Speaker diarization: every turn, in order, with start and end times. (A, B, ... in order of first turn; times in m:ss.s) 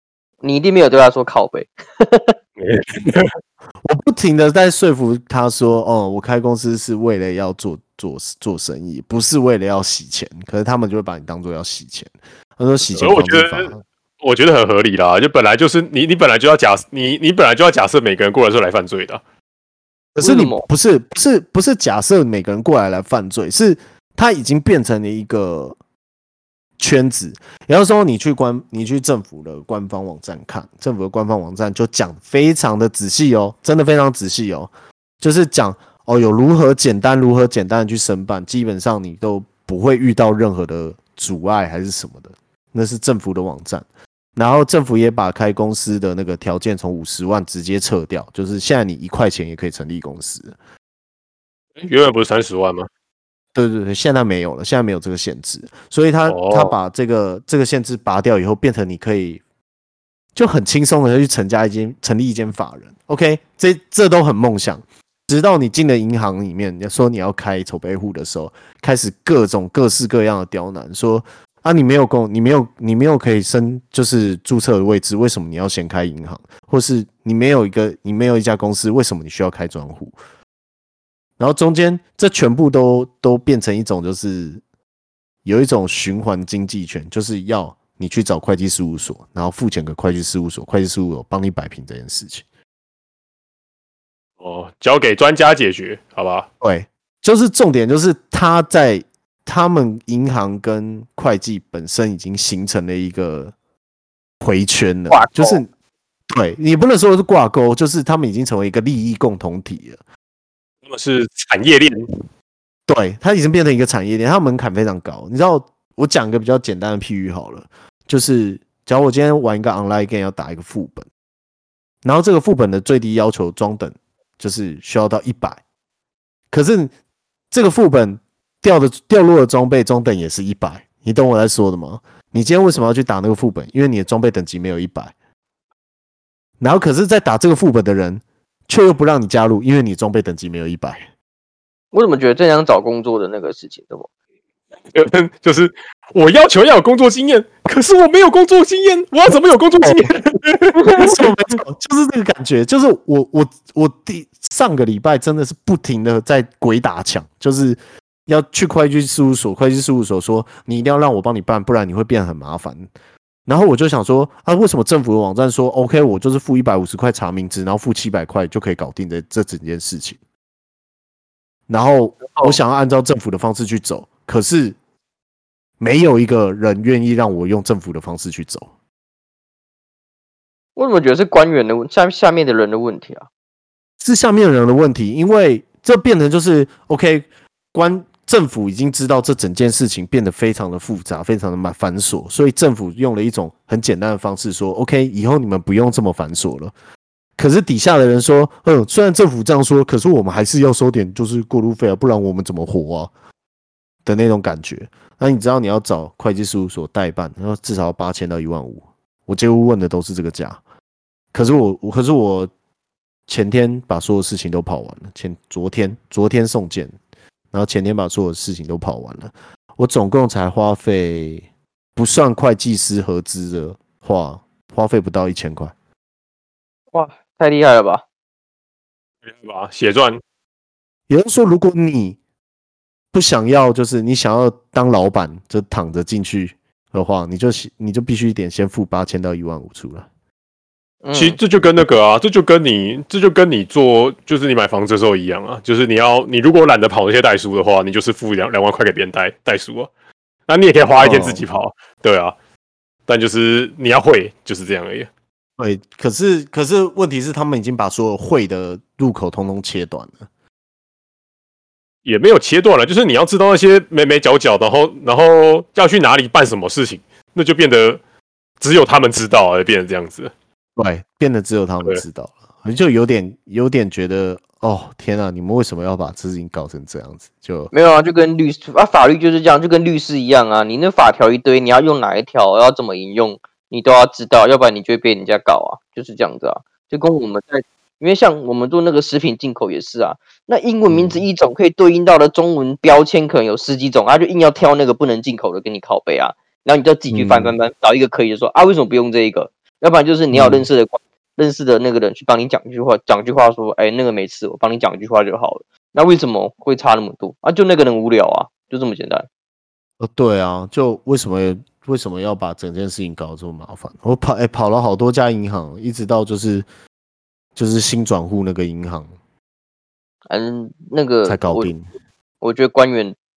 0:00.4-0:02.4 A
0:02.6-0:03.3 B
0:03.8-0:13.8 C
0:12.9-0:13.7 B
0:14.2-0:19.2 B
0:20.2-0:25.8 C
0:20.2-0:20.6 A
0:26.8-0:50.6 C
0:51.8-0:52.9 B
0:53.6-0:59.4 C
0:56.2-0:56.8 B
1:00.4-1:20.2 C
1:21.4-1:24.6 C
1:25.4-1:32.4 C
1:34.4-1:36.5 B
1:36.6-1:43.5 C
1:44.4-1:45.7 C
1:45.1-1:45.6 A
1:46.3-1:50.0 C
1:50.8-1:52.1 B
1:52.9-2:01.1 C
2:02.0-2:05.6 C
2:06.5-2:06.9 C
2:07.5-2:15.1 C
2:16.6-2:21.1 C
2:21.9-2:24.1 A
2:24.9-2:31.2 B
2:31.0-2:42.9 C
2:43.4-2:50.2 C
2:51.7-2:54.8 C
2:52.3-2:52.6 A
2:55.8-2:58.7 C
3:00.8-3:03.2 A
3:04.0-3:16.7 C
3:17.4-3:23.1 C
3:24.0-3:30.6 C
3:31.3-3:32.5 C
3:33.3-3:36.9 C
3:37.5-3:41.4 C
3:42.0-3:45.7 C
3:46.9-3:48.0 A
3:49.2-3:50.2 B
3:51.1-3:52.2 C
3:53.1-4:00.1 C
4:01.0-4:01.4 A
4:01.1-4:09.9 B
4:10.5-4:12.4 B
4:11.0-4:11.4 C
4:13.1-4:15.1 B
4:15.6-4:20.2 C
4:22.0-4:28.0 B
4:28.6-4:30.3 B
4:30.8-4:37.7 C
4:37.7-5:09.3 A
4:50.9-4:51.2 C
4:57.1-4:57.6 C
5:00.3-5:00.6 C
5:10.0-5:16.6 C
5:17.6-5:19.1 C
5:20.3-5:21.7 A
5:21.2-5:21.9 C
5:22.4-5:23.2 A